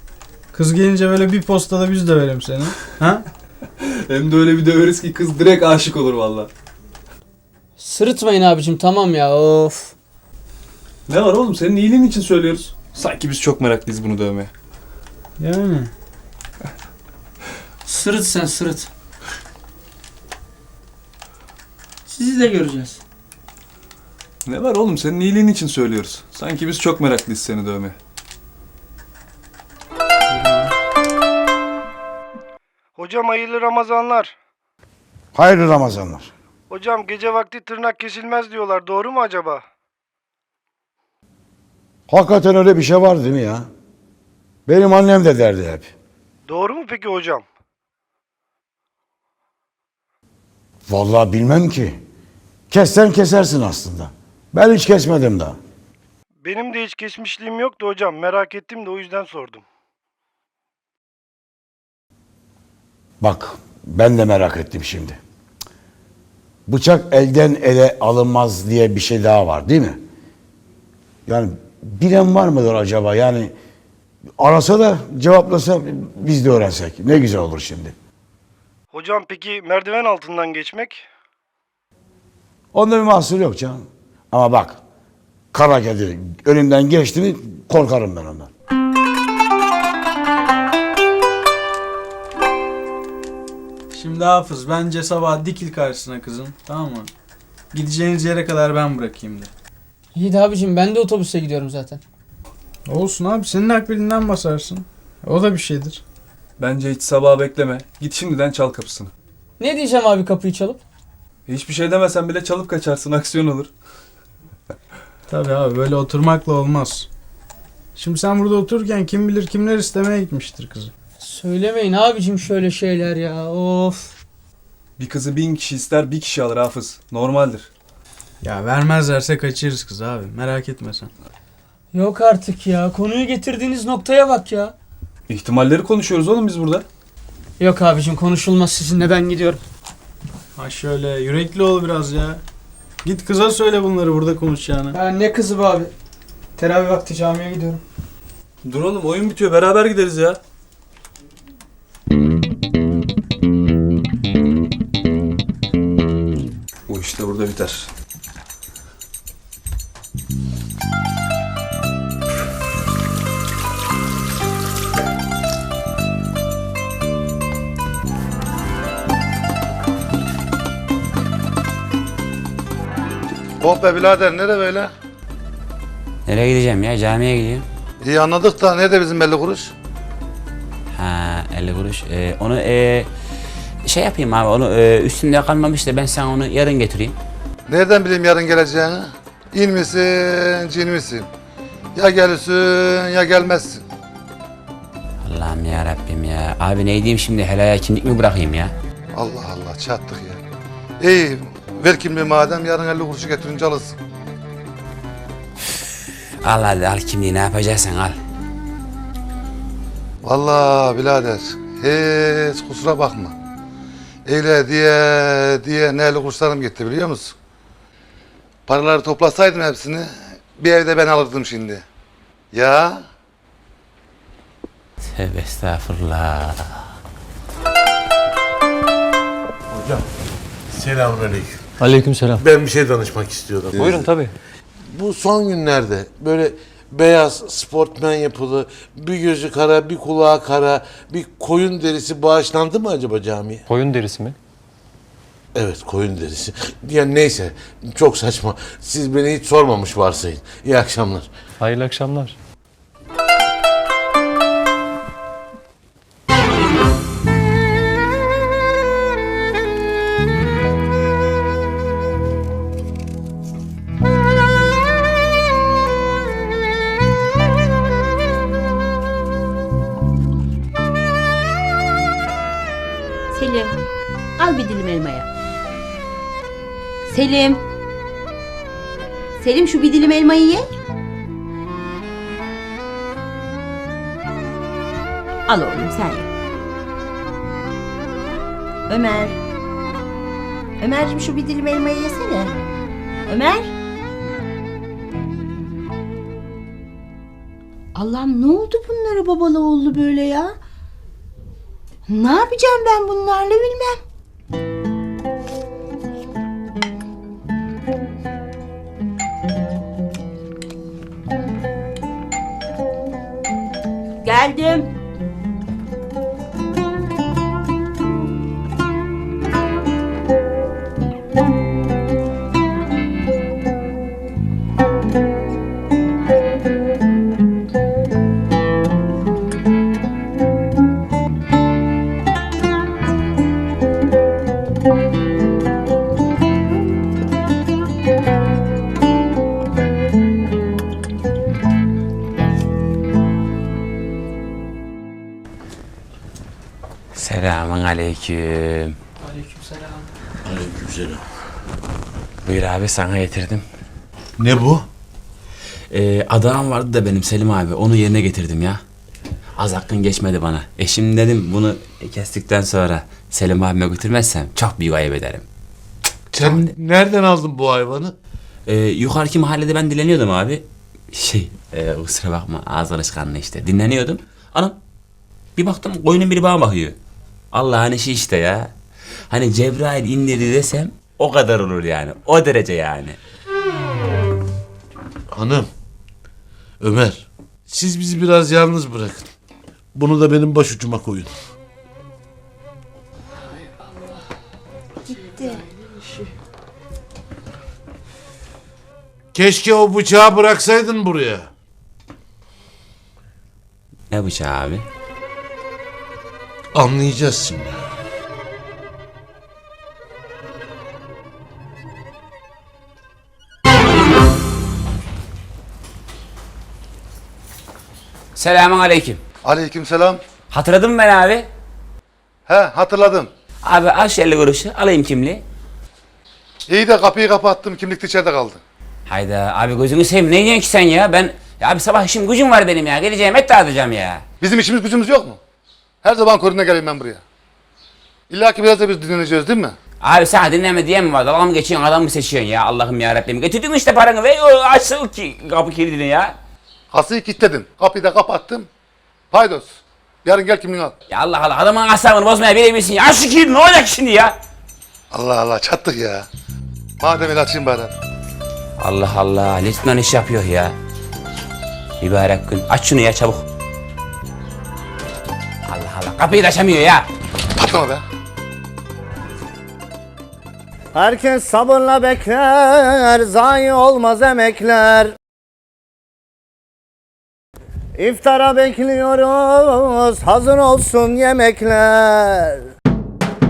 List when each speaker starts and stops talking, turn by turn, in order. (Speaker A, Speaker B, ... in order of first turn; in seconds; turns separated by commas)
Speaker A: 0.5-3.2, Speaker B: 3.8-6.5, Speaker C: 7.8-9.9, Speaker B: 11.1-14.5, Speaker A: 15.4-15.9, Speaker C: 17.9-18.9, Speaker C: 22.1-23.0, Speaker B: 24.5-28.0, Speaker A: 30.3-30.7, Speaker D: 33.0-34.4, Speaker E: 35.3-36.3, Speaker D: 36.7-39.6, Speaker E: 42.1-43.7, Speaker E: 44.7-45.9, Speaker D: 46.5-47.5, Speaker E: 50.9-52.0, Speaker E: 52.7-55.6, Speaker D: 56.4-59.6, Speaker E: 63.2-65.2, Speaker E: 66.7-70.0, Speaker E: 71.3-73.5, Speaker E: 74.4-78.0, Speaker D: 78.9-81.0, Speaker E: 82.7-84.8, Speaker E: 85.5-88.5, Speaker A: 93.9-97.1, Speaker A: 97.7-99.5, Speaker C: 100.2-102.0, Speaker A: 102.9-106.0, Speaker B: 106.6-109.1, Speaker C: 109.6-110.8, Speaker B: 111.5-113.7, Speaker A: 115.3-117.1, Speaker A: 118.0-120.9, Speaker C: 121.2-124.1, Speaker B: 125.0-127.7, Speaker A: 128.4-131.1, Speaker C: 131.9-134.7, Speaker B: 135.3-136.9, Speaker C: 137.6-139.6, Speaker A: 140.6-142.4, Speaker A: 143.0-145.0, Speaker C: 144.9-145.9, Speaker C: 146.6-147.8, Speaker B: 148.7-150.4, Speaker B: 156.9-157.9, Speaker F: 173.6-174.9, Speaker G: 176.3-177.7, Speaker F: 178.0-179.7, Speaker G: 180.9-183.1, Speaker G: 183.8-187.2, Speaker F: 187.7-191.3, Speaker F: 191.9-193.8, Speaker G: 195.2-198.7, Speaker F: 199.2-200.4, Speaker F: 201.0-204.0, Speaker G: 206.4-208.2, Speaker F: 210.2-213.3, Speaker F: 214.3-217.3, Speaker F: 218.7-221.8, Speaker F: 222.5-223.0, Speaker G: 225.1-226.9, Speaker H: 229.7-230.1, Speaker H: 230.7-231.7, Speaker I: 231.8-232.4, Speaker H: 232.4-234.1, Speaker I: 233.8-234.3, Speaker H: 234.9-243.6, Speaker I: 243.7-244.4, Speaker H: 245.6-251.3, Speaker I: 251.6-252.4, Speaker J: 273.3-273.8, Speaker J: 274.4-275.3, Speaker J: 277.1-277.6, Speaker J: 279.4-280.7, Speaker J: 285.5-286.3, Speaker J: 288.9-289.4, Speaker J: 290.8-292.7, Speaker J: 293.3-293.7, Speaker J: 297.9-300.6, Speaker J: 302.1-304.0, Speaker J: 314.2-314.9, Speaker G: 347.1-349.0, Speaker C: 349.2-350.1, Speaker H: 350.5-351.2, Speaker G: 352.5-353.6, Speaker H: 354.4-354.9, Speaker G: 355.9-358.8, Speaker G: 359.6-365.4, Speaker H: 366.3-368.1, Speaker G: 366.4-366.7, Speaker G: 368.7-374.8, Speaker G: 375.6-377.0, Speaker G: 377.5-378.7, Speaker G: 379.3-383.2, Speaker H: 385.3-385.7, Speaker H: 386.8-389.3, Speaker H: 389.9-391.3, Speaker J: 395.3-395.6, Speaker H: 399.3-401.5, Speaker G: 404.1-404.9, Speaker H: 406.7-407.8, Speaker G: 418.4-419.2, Speaker F: 419.5-420.2, Speaker G: 420.5-421.5, Speaker F: 422.5-423.3, Speaker G: 423.6-425.4, Speaker F: 426.7-428.6, Speaker G: 429.1-434.2, Speaker F: 434.4-435.4, Speaker F: 436.0-437.2, Speaker F: 438.3-439.8, Speaker G: 440.0-446.4, Speaker F: 446.9-448.7, Speaker F: 449.3-449.7, Speaker F: 450.2-450.9, Speaker G: 451.1-454.4, Speaker F: 455.1-456.2, Speaker F: 457.0-457.9, Speaker G: 458.8-460.8, Speaker G: 462.0-463.4, Speaker G: 465.7-467.1, Speaker F: 467.6-468.0, Speaker K: 470.9-475.1, Speaker K: 478.0-482.6